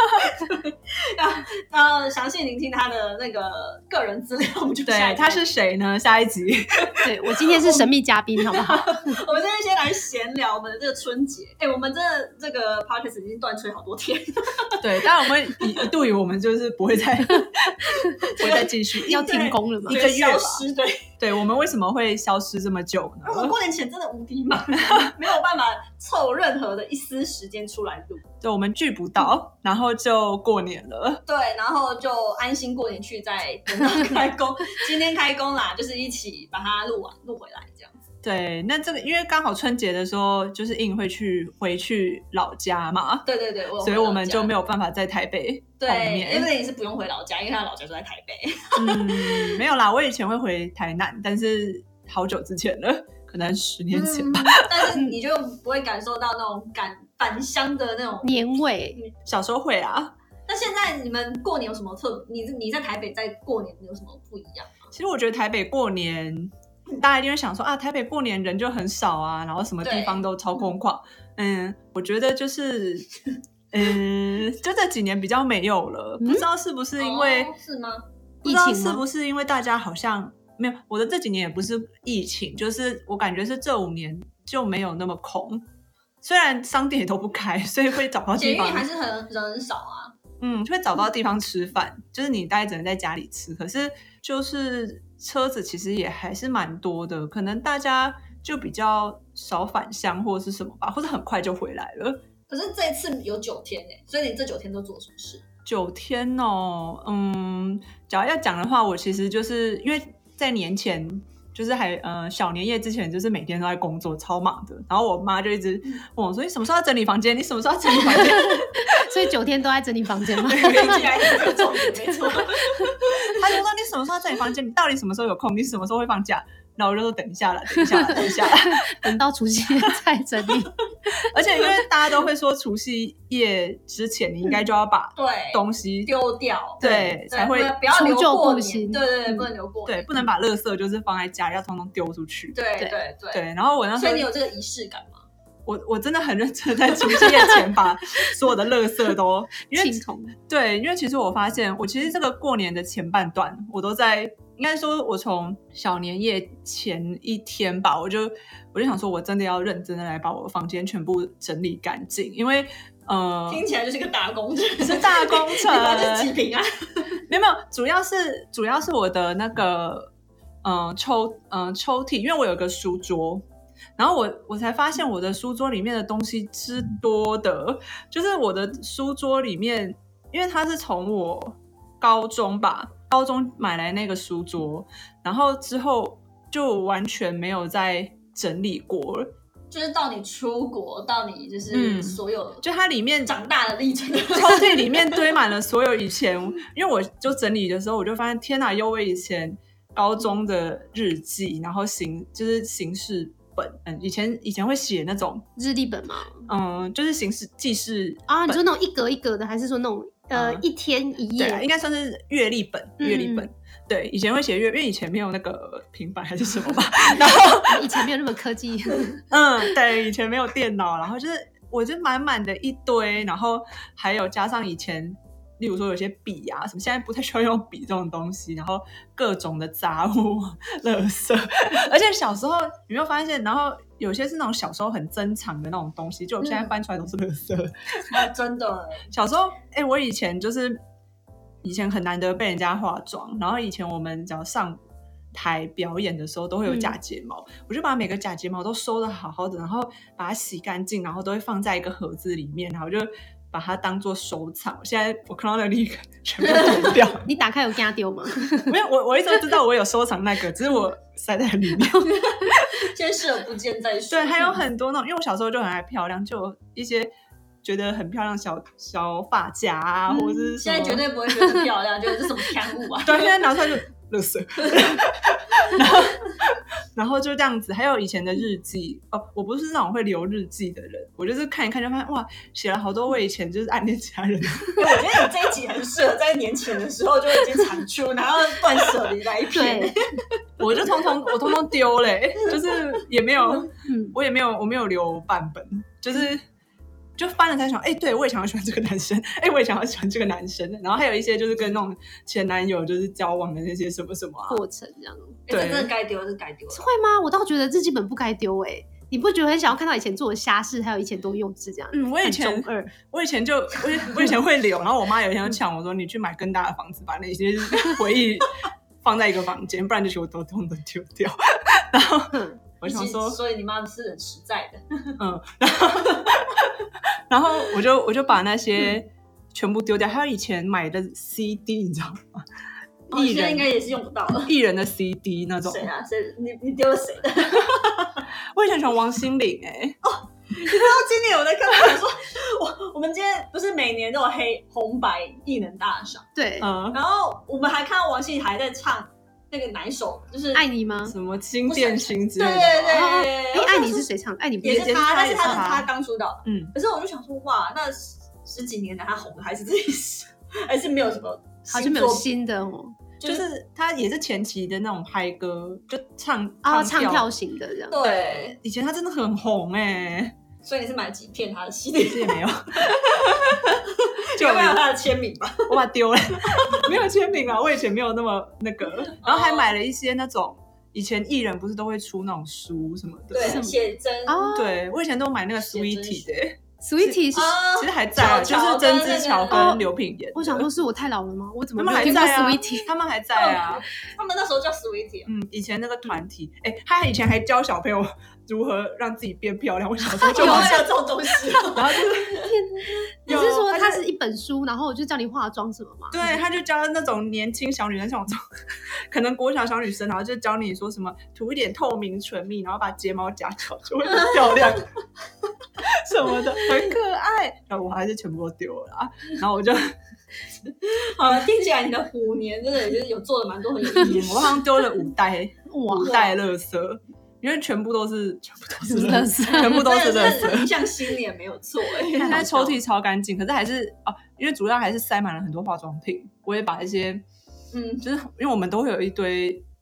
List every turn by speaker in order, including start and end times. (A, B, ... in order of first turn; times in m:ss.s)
0:00.4-0:05.4 A
0:04.9-0:07.1 B
0:07.0-0:09.2 C
0:08.5-0:14.8 A
0:14.8-0:20.6 B
0:18.0-0:21.1 A
0:19.0-0:20.0 C
0:21.2-0:23.6 B
0:23.2-0:28.2 A
0:24.8-0:25.1 B
0:28.4-0:31.2 B
0:31.3-0:38.0 A
0:38.2-0:43.2 B
0:43.2-0:44.5 A
0:43.8-0:46.5 B
0:45.8-0:49.6 A
0:48.7-0:54.9 B
0:53.9-0:58.4 A
0:58.2-0:59.0 C
0:59.2-1:00.1 B
1:00.5-1:04.9 A
1:04.9-1:13.1 B
1:09.8-1:10.2 A
1:13.7-1:17.5 B
1:16.2-1:16.4 C
1:17.0-1:18.0 A
1:18.4-1:19.0 C
1:18.4-1:25.6 B
1:26.2-1:28.8 B
1:28.4-1:30.1 A
1:30.4-1:42.2 B
1:42.5-1:45.4 A
1:45.6-1:59.1 B
1:58.3-2:01.7 C
2:00.4-2:01.2 B
2:00.5-2:03.4 A
2:03.2-2:09.2 B
2:07.8-2:10.8 C
2:11.2-2:16.1 B
2:15.2-2:20.1 A
2:16.8-2:17.7 B
2:16.8-2:17.2 C
2:17.9-2:19.4 C
2:19.8-2:22.6 B
2:22.5-2:25.2 A
2:23.3-2:24.3 B
2:25.6-2:43.6 B
2:29.7-2:30.4 C
2:43.5-2:47.2 A
2:44.8-2:46.3 B
2:47.3-2:50.1 B
2:50.6-2:53.4 B
2:54.0-3:09.3 B
3:09.7-3:12.6 A
3:11.7-3:13.3 B
3:13.2-3:15.2 A
3:14.3-3:25.4 B
3:25.6-3:26.4 C
3:26.4-3:28.6 B
3:28.3-3:31.6 C
3:30.3-3:30.6 B
3:31.4-3:38.1 B
3:33.0-3:33.5 C
3:37.6-3:39.2 C
3:39.3-3:58.2 B
3:58.1-3:59.0 A
3:59.1-4:00.8 B
4:01.6-4:04.8 B
4:05.3-4:17.3 B
4:06.7-4:06.9 C
4:17.2-4:18.7 C
4:18.6-4:22.7 B
4:22.1-4:24.6 A
4:24.1-4:27.1 B
4:27.6-4:31.0 B
4:30.1-4:33.4 A
4:33.0-4:45.3 B
4:44.8-4:50.0 A
4:49.5-4:49.9 C
4:50.6-4:56.4 B
4:53.8-4:54.1 C
4:57.2-5:04.6 B
5:04.5-5:05.4 C
5:05.5-5:06.8 A
5:05.5-5:05.9 B
5:06.7-5:12.9 C
5:11.9-5:23.4 B
5:22.3-5:22.6 C
5:22.8-5:25.2 A
5:25.2-5:26.7 B
5:27.3-5:32.4 B
5:33.1-5:33.7 B
5:33.1-5:34.5 A
5:34.4-5:35.9 B
5:35.6-5:38.2 A
5:38.5-5:40.0 B
5:40.0-5:46.3 A
5:46.4-5:46.7 C
5:46.6-5:47.0 B
5:46.9-5:50.6 A
5:50.5-5:51.1 C
5:51.0-5:53.0 B
5:51.6-5:54.1 A
5:52.9-5:55.6 C
5:54.6-5:55.9 B
5:54.6-6:02.3 A
5:56.4-5:56.7 B
6:01.7-6:03.0 C
6:03.2-6:03.4 A
6:03.2-6:07.3 B
6:06.6-6:08.0 C
6:07.9-6:08.6 A
6:08.0-6:10.3 B
6:10.6-6:15.8 A
6:12.0-6:13.7 B
6:14.4-6:14.8 B
6:15.7-6:23.6 B
6:16.5-6:16.8 A
6:19.2-6:19.7 A
6:23.3-6:24.5 A
6:23.4-6:24.8 C
6:24.5-6:30.7 B
6:25.6-6:26.3 A
6:26.8-6:27.6 C
6:27.3-6:29.7 A
6:29.5-6:32.9 C
6:31.8-6:33.8 B
6:33.3-6:35.3 A
6:35.2-6:40.9 B
6:40.3-6:42.4 A
6:40.3-6:40.9 C
6:41.7-6:42.3 B
6:42.3-6:46.4 C
6:43.3-6:44.0 B
6:46.1-6:48.4 B
6:48.9-6:54.9 B
6:55.8-6:59.9 B
7:00.8-7:04.6 A
7:04.0-7:10.7 B
7:05.7-7:06.2 C
7:06.0-7:06.3 A
7:08.8-7:09.9 C
7:09.4-7:12.8 A
7:12.1-7:17.2 B
7:17.7-7:18.0 A
7:18.0-7:19.6 B